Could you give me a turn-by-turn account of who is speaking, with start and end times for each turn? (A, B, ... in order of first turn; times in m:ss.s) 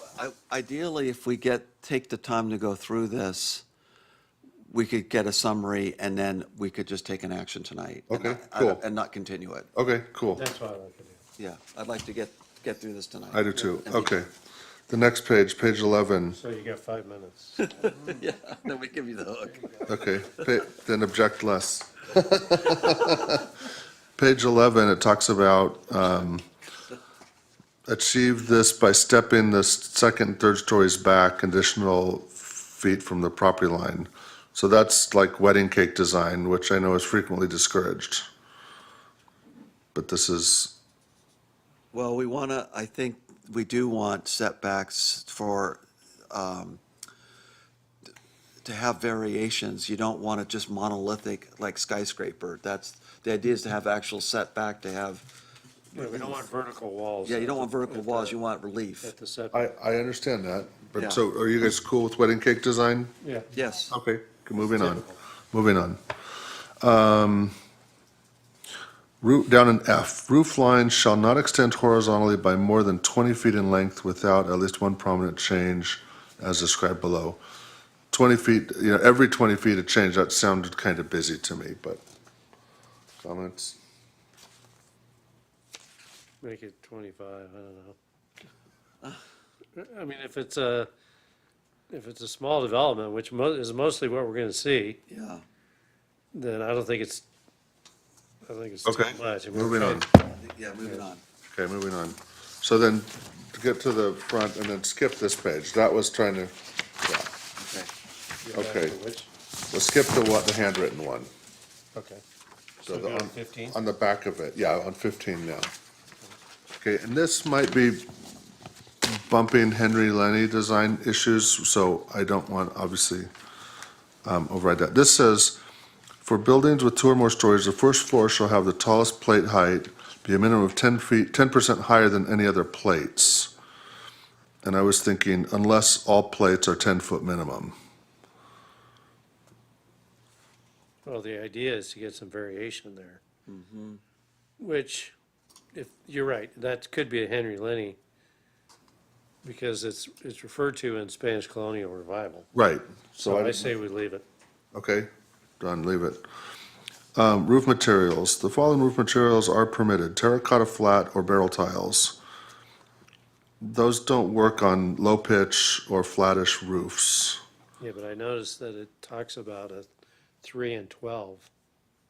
0:00.1-0:03.6 A
0:04.7-0:09.7 A
0:08.1-0:08.8 B
0:09.7-0:10.4 B
0:10.3-0:11.2 C
0:11.4-0:14.2 A
0:13.3-0:14.3 B
0:14.9-0:16.4 B
0:16.3-0:18.0 C
0:17.6-0:19.9 A
0:19.8-0:23.5 B
0:24.2-0:26.4 B
0:27.9-0:38.3 B
0:39.9-0:40.7 B
0:41.9-0:46.8 A
0:48.6-0:55.2 A
0:55.9-0:56.3 A
0:55.9-0:58.4 C
0:57.2-0:59.1 A
0:59.0-0:59.7 C
0:59.5-1:03.1 B
1:01.0-1:01.2 A
1:03.2-1:03.5 C
1:03.5-1:03.9 A
1:03.9-1:06.0 B
1:04.6-1:05.1 C
1:06.8-1:07.5 B
1:09.2-1:17.4 B
1:18.1-1:22.0 B
1:23.2-1:23.8 B
1:26.4-1:28.0 C
1:29.8-1:30.9 C
1:31.9-1:35.0 C
1:35.1-1:35.4 A
1:36.3-1:37.2 C
1:38.4-1:40.2 C
1:38.8-1:40.1 B
1:40.3-1:41.2 A
1:41.5-1:47.3 B
1:47.6-1:47.9 A
1:48.4-1:49.3 C
1:48.5-1:49.0 B
1:49.7-1:51.3 B
1:51.9-1:52.2 C
1:52.8-1:55.7 B
1:52.8-1:53.8 C
1:56.8-1:58.1 B
1:59.0-2:03.3 B
2:04.2-2:05.6 B
2:06.2-2:13.5 B
2:14.6-2:17.7 B
2:21.0-2:23.2 C
2:23.5-2:24.0 A
2:24.6-2:25.1 C
2:25.7-2:28.0 C
2:29.4-2:32.5 C
2:32.5-2:33.7 B
2:33.2-2:34.2 C
2:34.7-2:35.1 B
2:35.6-2:36.2 B
2:37.2-2:42.2 B
2:43.6-2:47.4 B
2:47.8-2:49.9 C
2:50.4-2:51.5 C